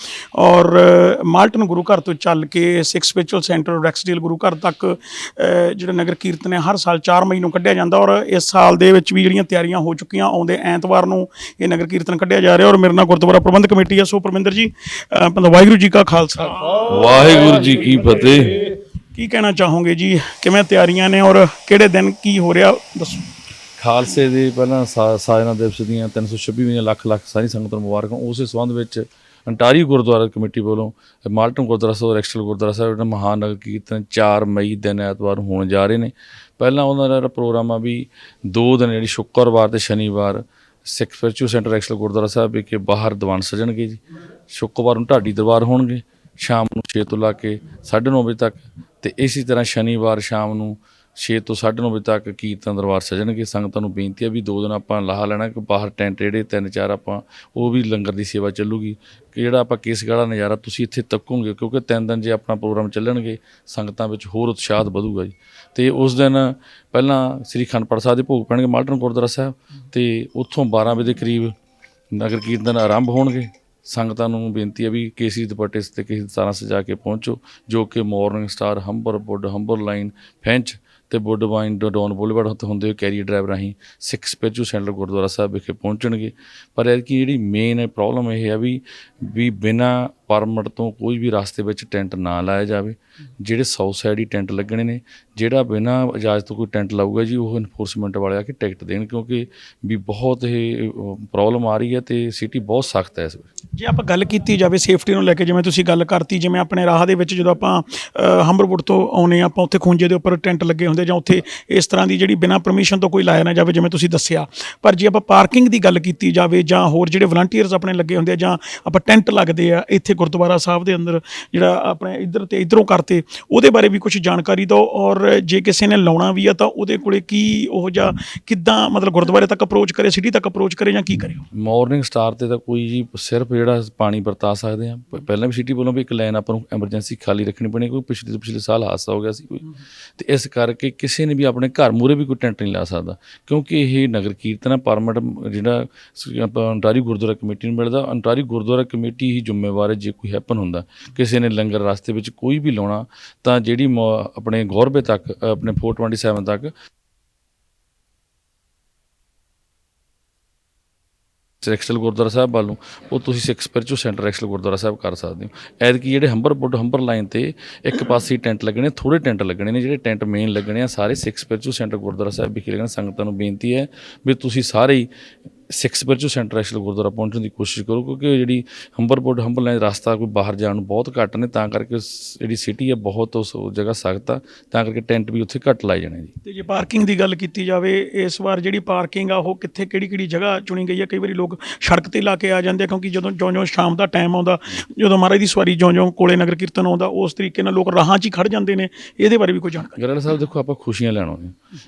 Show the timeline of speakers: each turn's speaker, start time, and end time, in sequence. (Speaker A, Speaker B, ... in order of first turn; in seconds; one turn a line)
Speaker A: 0.3-17.0
Speaker B: 16.9-18.6
Speaker A: 19.1-23.2
Speaker B: 23.8-44.0
Speaker B: 44.5-71.5
Speaker B: 72.1-103.5
Speaker A: 103.7-131.4
Speaker B: 131.5-139.6
Speaker B: 140.2-156.7
Speaker B: 161.6-175.1
Speaker B: 175.7-186.3
Speaker A: 186.4-200.0
Speaker B: 199.9-201.5